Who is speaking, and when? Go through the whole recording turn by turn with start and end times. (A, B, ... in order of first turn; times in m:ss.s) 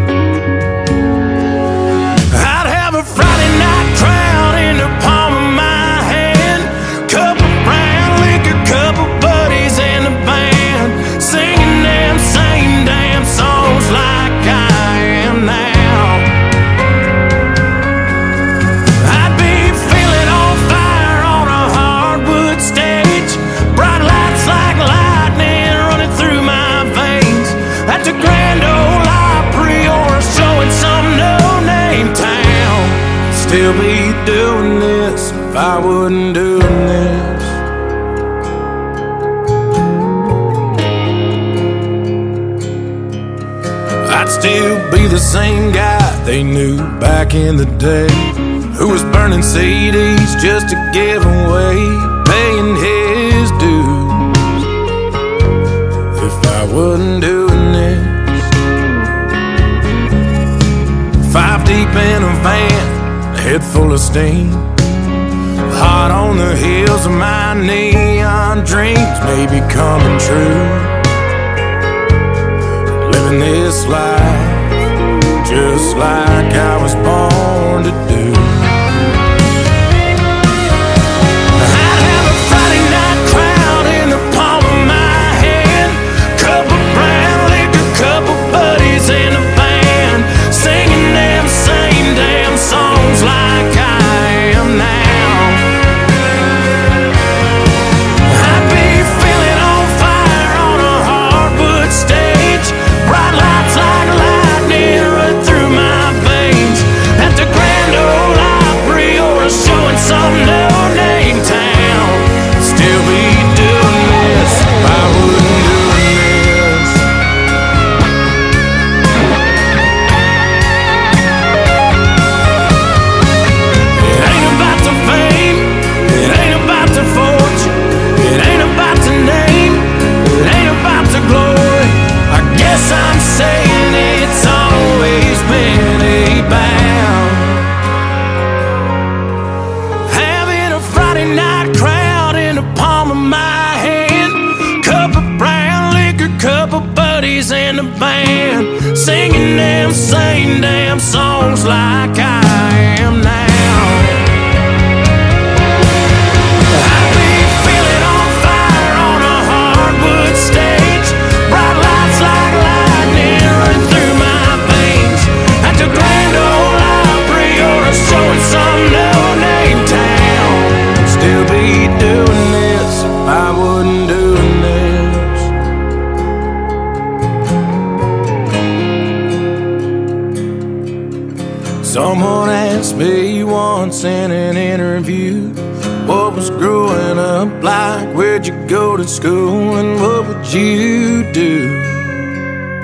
0:02.3-0:16.3 A
0:19.0-0:37.6 A
0:44.0-0:54.5 A
0:56.1-0:58.5 A
1:01.2-1:04.8 A
1:05.7-1:11.0 A
1:13.0-1:14.8 A
1:15.4-1:18.9 A
1:21.5-1:35.7 A
1:38.2-1:57.1 A
2:04.0-2:17.8 A
2:20.0-2:34.3 A
2:36.7-2:55.5 A
3:01.8-3:12.3 A